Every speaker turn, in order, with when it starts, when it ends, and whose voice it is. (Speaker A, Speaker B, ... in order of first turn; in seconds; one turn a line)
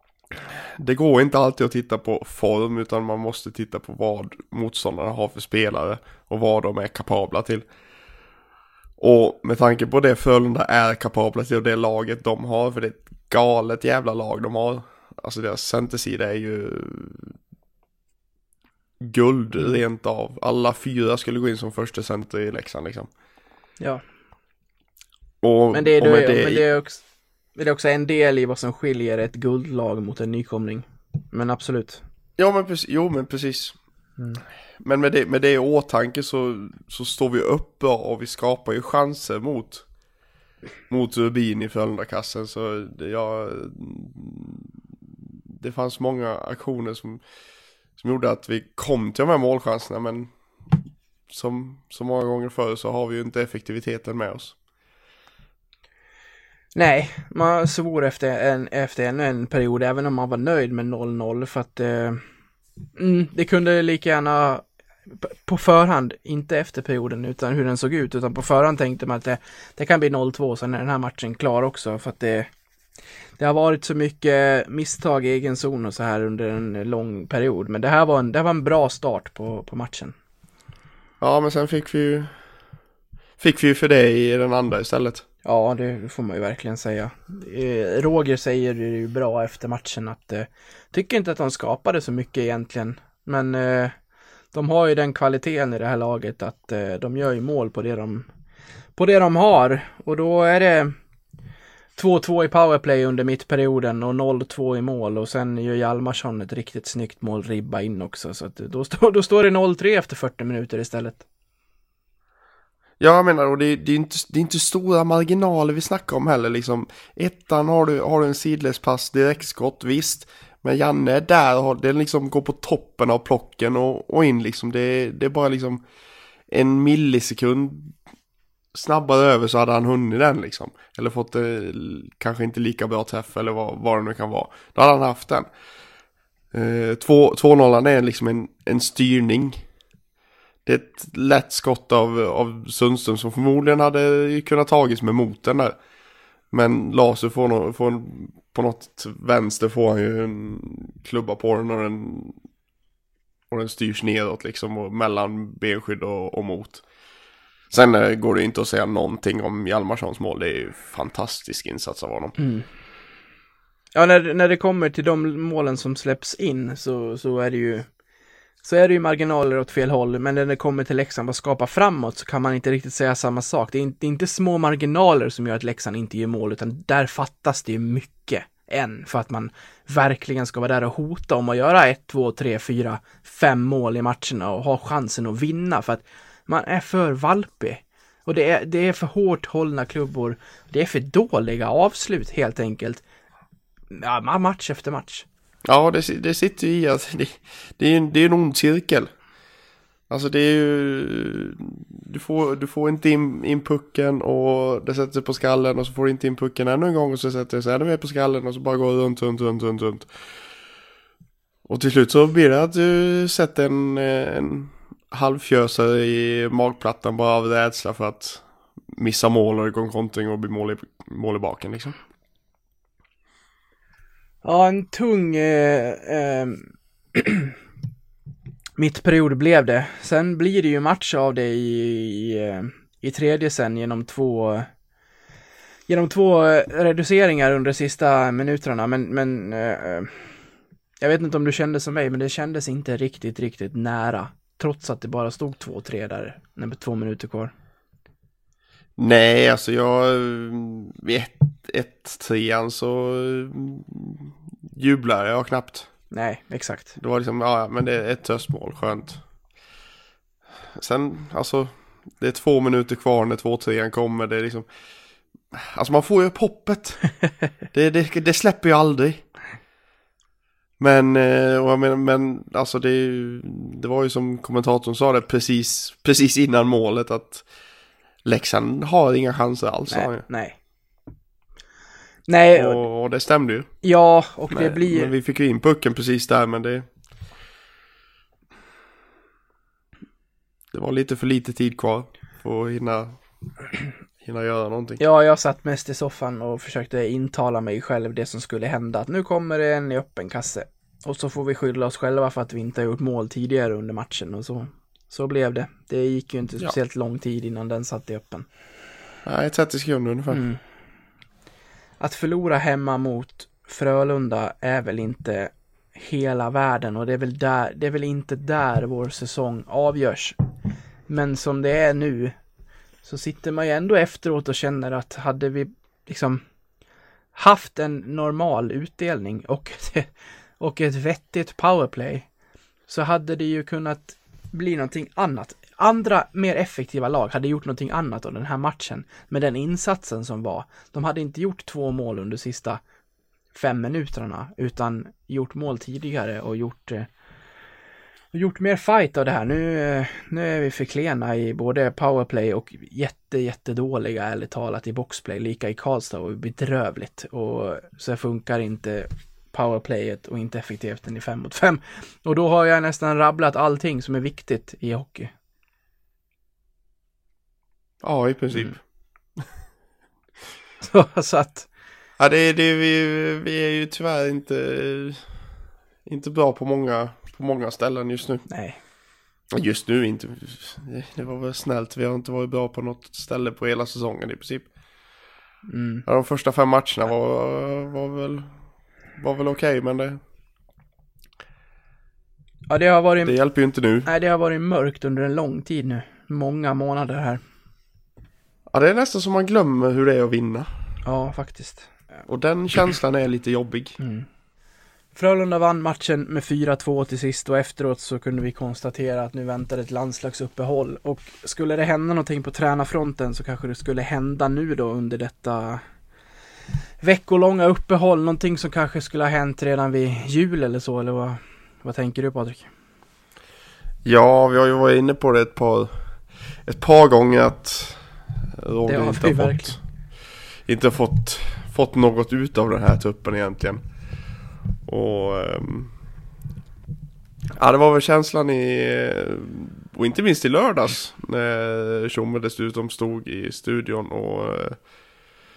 Speaker A: 0.3-7.7
Speaker A: 9.0-17.4
Speaker A: 19.0-23.1
Speaker A: 25.4-26.7
Speaker B: 25.7-27.0
Speaker B: 27.6-32.0
Speaker A: 32.4-33.8
Speaker A: 34.8-39.9
Speaker A: 40.9-44.7
Speaker A: 45.5-47.2
Speaker A: 48.0-54.6
Speaker B: 56.8-62.2
Speaker B: 63.0-72.5
Speaker B: 73.4-80.2
Speaker A: 81.2-82.3
Speaker A: 83.4-85.2
Speaker B: 85.5-94.0
Speaker B: 94.5-98.3
Speaker B: 99.0-101.0
Speaker B: 102.0-111.2
Speaker A: 113.0-125.8
Speaker A: 126.5-128.0
Speaker A: 128.7-135.5
Speaker A: 136.5-139.6
Speaker A: 140.7-145.8
Speaker A: 146.5-152.4
Speaker A: 153.5-156.8
Speaker A: 157.7-162.3
Speaker B: 162.4-162.7
Speaker B: 163.9-167.9
Speaker B: 168.6-193.0
Speaker B: 193.9-195.2
Speaker A: 195.7-199.1
Speaker A: 200.1-210.1
Speaker A: 211.7-222.0
Speaker B: 224.4-227.5
Speaker B: 228.8-234.7
Speaker B: 235.9-240.3
Speaker B: 241.0-247.5
Speaker A: 249.0-255.9
Speaker B: 256.1-256.9
Speaker A: 257.0-259.2
Speaker A: 260.7-264.7
Speaker A: 265.5-267.1
Speaker A: 267.7-269.3
Speaker A: 270.8-277.5
Speaker A: 278.2-280.3
Speaker B: 279.9-280.6
Speaker B: 282.3-282.8
Speaker A: 282.5-283.7
Speaker B: 283.8-285.1
Speaker A: 284.5-286.9
Speaker A: 290.7-293.2
Speaker A: 294.2-295.0
Speaker B: 295.0-308.5
Speaker A: 309.2-310.4
Speaker B: 310.3-310.6
Speaker B: 312.0-320.4
Speaker B: 321.1-322.4
Speaker B: 323.0-326.4
Speaker B: 327.4-332.3
Speaker B: 332.9-342.8
Speaker B: 343.5-347.1
Speaker B: 348.3-365.3
Speaker A: 368.0-368.8
Speaker B: 370.8-371.7
Speaker A: 372.2-375.3
Speaker A: 376.1-378.6
Speaker B: 378.5-378.8
Speaker A: 379.5-384.7
Speaker B: 385.7-386.1
Speaker A: 386.1-388.6
Speaker A: 389.2-390.2
Speaker B: 392.7-393.3
Speaker A: 393.2-394.1
Speaker B: 394.1-397.4
Speaker A: 398.7-400.7
Speaker B: 401.1-401.9
Speaker A: 402.3-404.0
Speaker B: 404.0-404.3
Speaker B: 405.1-415.8
Speaker B: 417.0-422.7
Speaker A: 424.1-426.0
Speaker A: 426.6-429.8
Speaker B: 428.9-429.8
Speaker A: 430.7-433.8
Speaker A: 434.9-435.9
Speaker A: 437.6-444.8